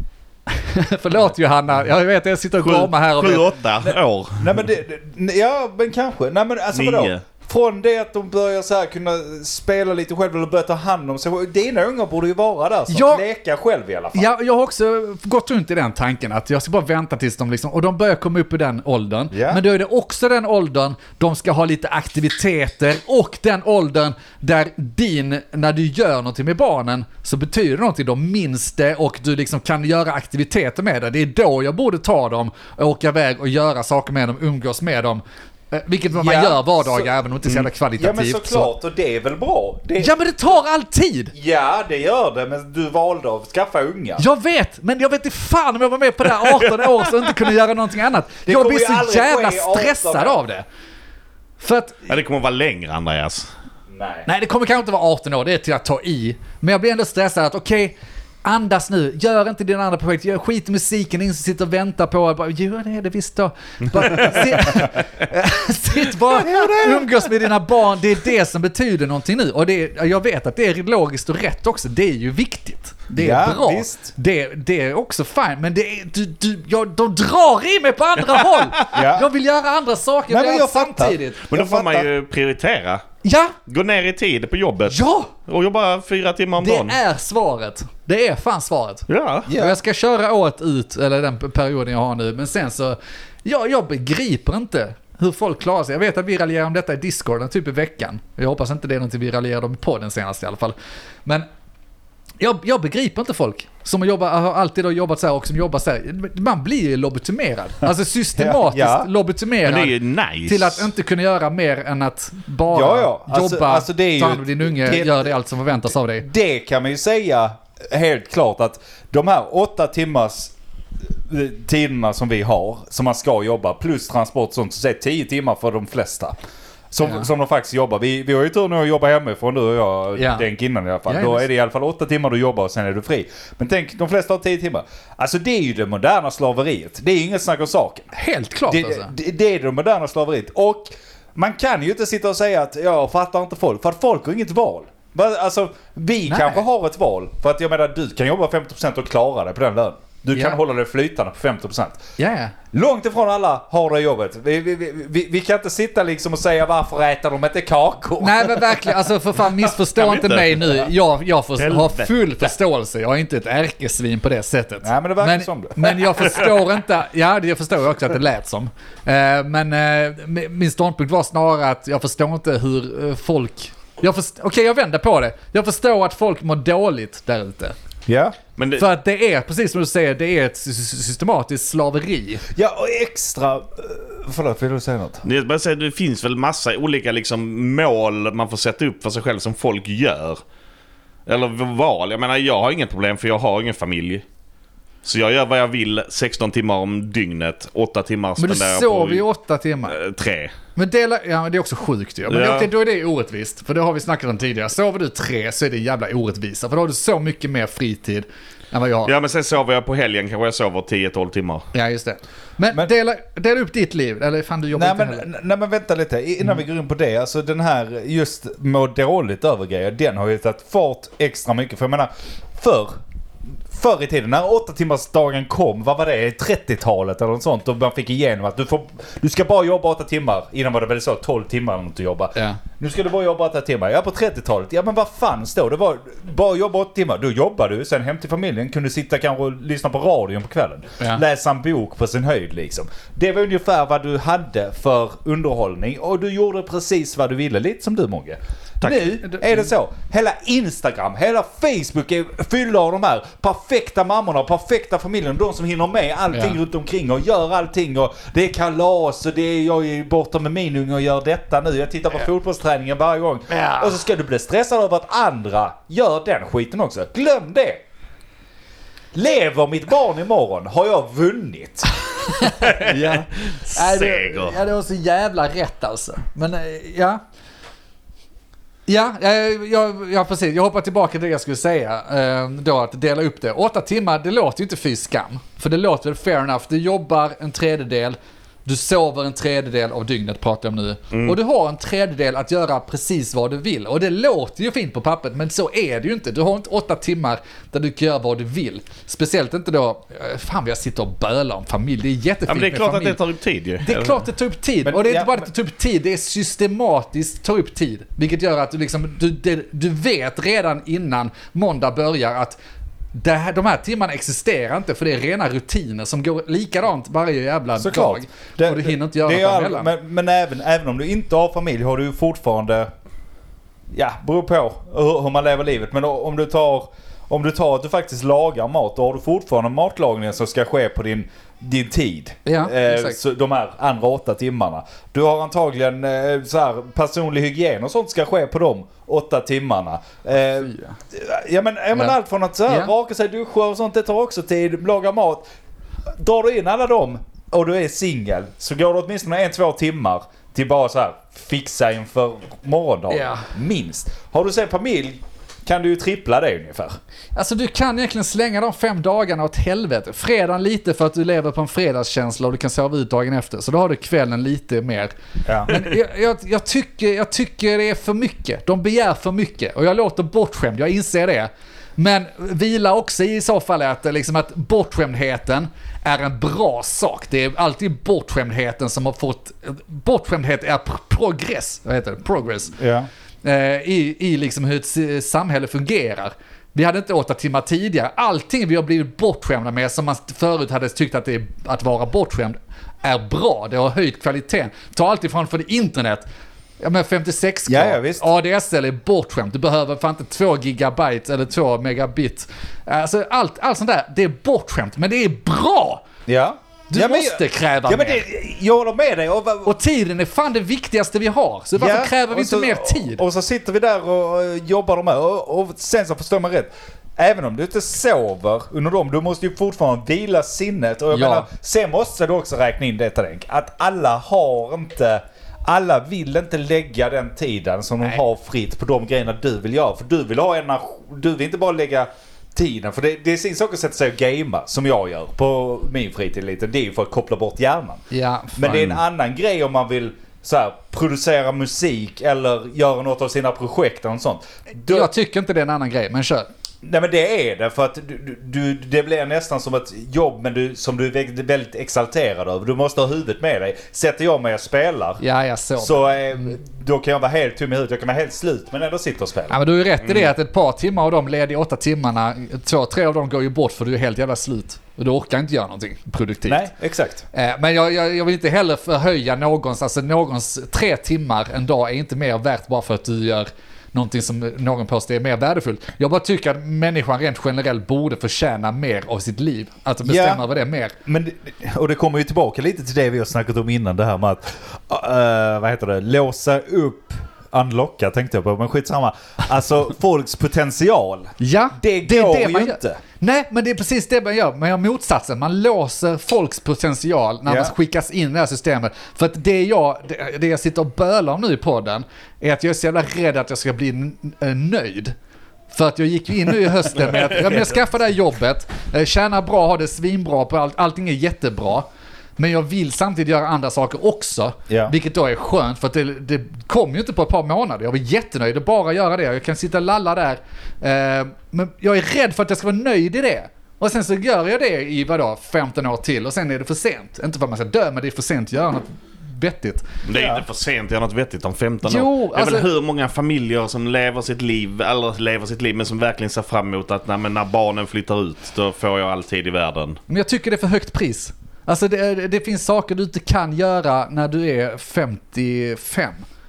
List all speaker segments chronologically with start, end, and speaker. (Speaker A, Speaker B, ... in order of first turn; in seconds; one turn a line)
Speaker A: 0.5-3.5
Speaker B: 2.6-4.6
Speaker C: 3.8-14.3
Speaker B: 6.7-7.2
Speaker A: 12.9-13.2
Speaker A: 14.1-38.7
Speaker C: 19.3-19.6
Speaker C: 36.1-40.2
Speaker A: 40.0-41.3
Speaker C: 41.3-44.2
Speaker A: 44.2-50.7
Speaker C: 48.5-50.4
Speaker A: 51.6-52.1
Speaker B: 52.1-53.5
Speaker C: 53.9-54.3
Speaker A: 54.3-81.5
Speaker C: 66.2-67.3
Speaker C: 73.2-74.1
Speaker B: 78.4-78.9
Speaker C: 78.9-79.3
Speaker C: 80.3-82.1
Speaker B: 81.5-83.0
Speaker A: 83.2-83.5
Speaker B: 83.7-87.0
Speaker A: 84.9-85.3
Speaker A: 86.6-101.5
Speaker B: 89.1-89.5
Speaker C: 89.5-89.8
Speaker A: 102.4-116.3
Speaker C: 107.8-109.1
Speaker B: 109.7-110.9
Speaker C: 112.7-115.3
Speaker C: 116.2-120.5
Speaker C: 121.3-126.4
Speaker C: 126.9-138.1
Speaker A: 130.2-130.5
Speaker A: 131.1-131.4
Speaker A: 138.1-139.1
Speaker C: 138.7-152.0
Speaker A: 146.3-146.6
Speaker A: 152.2-152.6
Speaker C: 152.7-159.0
Speaker A: 158.2-177.8
Speaker B: 159.9-160.9
Speaker B: 161.6-162.1
Speaker C: 164.8-166.3
Speaker C: 178.1-178.4
Speaker B: 178.6-178.8
Speaker A: 178.8-182.4
Speaker C: 182.6-185.2
Speaker B: 185.2-190.4
Speaker B: 191.3-194.2
Speaker B: 195.0-199.2
Speaker A: 198.4-200.0
Speaker B: 199.9-200.5
Speaker A: 200.8-209.1
Speaker B: 202.3-202.7
Speaker B: 209.1-211.7
Speaker A: 211.7-215.3
Speaker C: 214.8-223.0
Speaker C: 223.7-267.8
Speaker A: 232.3-232.6
Speaker A: 249.2-249.6
Speaker A: 256.3-256.6
Speaker A: 263.5-264.0
Speaker C: 269.1-271.9
Speaker A: 272.4-277.2
Speaker B: 272.6-274.6
Speaker A: 278.9-303.2
Speaker B: 291.1-291.4
Speaker B: 302.5-304.2
Speaker A: 303.8-312.6
Speaker C: 304.8-305.5
Speaker A: 313.1-319.9
Speaker C: 317.8-322.9
Speaker C: 323.9-345.5
Speaker A: 332.4-333.2
Speaker A: 340.6-341.0
Speaker C: 346.2-357.0
Speaker A: 353.1-353.5
Speaker A: 357.4-365.1
Speaker C: 365.5-365.9
Speaker A: 365.7-382.8
Speaker C: 382.8-383.1
Speaker A: 383.4-396.3
Speaker A: 396.8-406.0
Speaker C: 397.7-398.3
Speaker C: 406.3-409.7
Speaker A: 406.9-408.2
Speaker A: 409.6-413.2
Speaker C: 411.8-438.0
Speaker A: 421.1-421.5
Speaker A: 438.1-439.0
Speaker C: 438.6-445.1
Speaker A: 444.8-446.5
Speaker C: 446.8-455.2
Speaker A: 455.2-456.5
Speaker C: 455.8-459.6
Speaker A: 459.5-466.7
Speaker C: 466.5-467.2
Speaker A: 467.3-480.9
Speaker C: 480.0-480.4
Speaker C: 481.1-493.0
Speaker A: 491.4-505.1
Speaker C: 497.5-497.7
Speaker A: 505.7-529.9
Speaker C: 514.7-514.9
Speaker B: 530.1-540.0
Speaker C: 530.1-530.4
Speaker A: 531.8-532.7
Speaker A: 540.1-546.2